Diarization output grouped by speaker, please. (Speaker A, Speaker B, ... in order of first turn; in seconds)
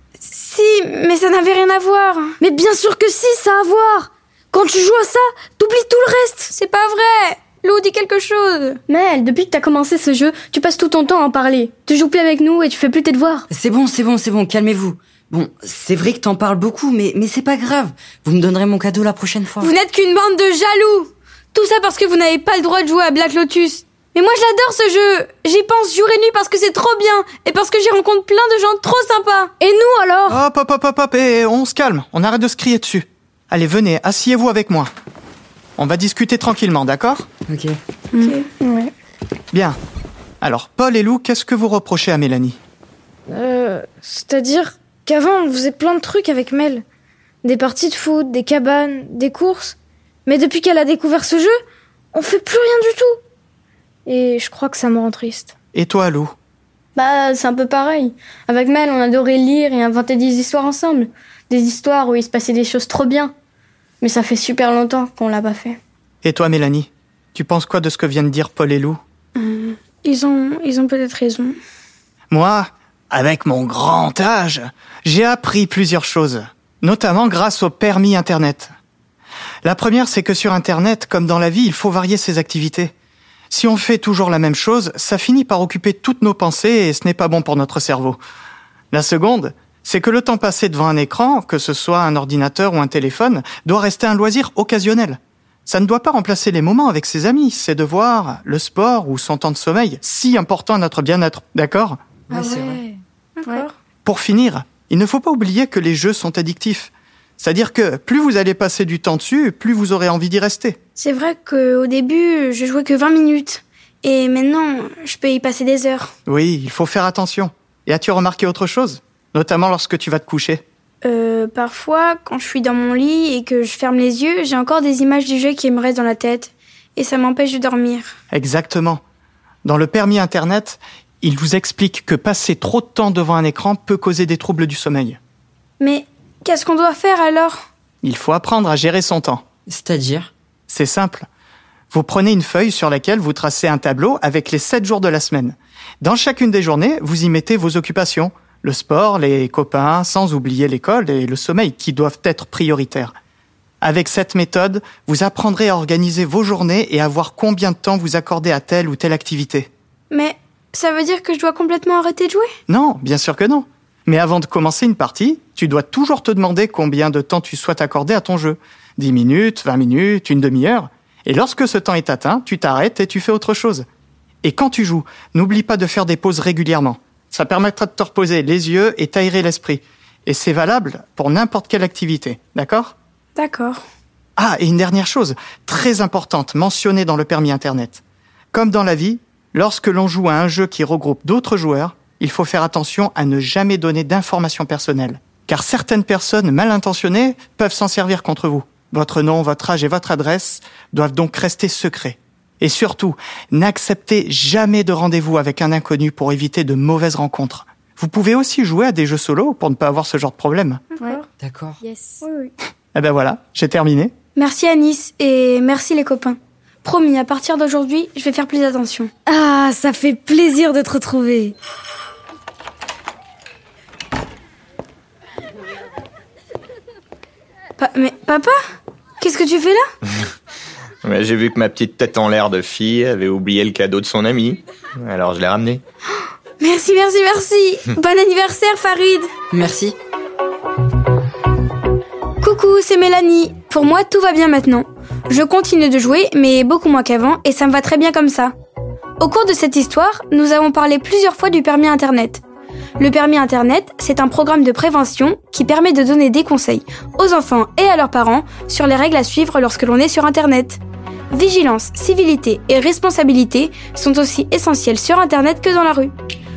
Speaker A: 0.2-2.4, 6.5-8.8, 19.6-29.5, 38.1-38.5, 69.4-71.6, 102.3-102.8, 103.4-103.7, 111.0-116.1, 121.0-128.2, 135.8-137.6, 160.1-162.5, 183.3-183.8, 212.2-212.5, 214.3-219.1, 227.8-228.6, 229.2-229.8, 236.6-239.3, 242.4-248.5, 249.2-252.4, 253.0-266.1
Speaker B: 2.4-6.5, 29.6-30.4, 43.3-46.8, 47.4-51.5, 52.1-53.2, 54.0-55.5, 211.8-212.2, 219.3-221.5
Speaker C: 8.9-13.4, 38.6-38.9, 57.0-63.3, 64.0-65.8
Speaker D: 13.5-19.7, 37.5-37.7, 102.3-102.8, 139.7-140.3, 211.4-211.8, 239.5-239.9
Speaker E: 30.2-34.9, 35.8-37.3, 39.5-39.8, 40.4-42.6, 55.7-56.3, 66.2-69.0, 72.3-78.7, 79.6-82.9, 83.5-88.2, 88.9-102.0, 104.0-110.8, 116.2-120.6, 128.3-129.0, 129.6-135.2, 138.0-139.4, 140.7-141.3, 141.9-153.1, 153.8-159.7, 162.7-173.8, 174.4-182.9, 184.4-188.0, 188.5-210.8, 212.9-214.1
Speaker F: 231.0-235.8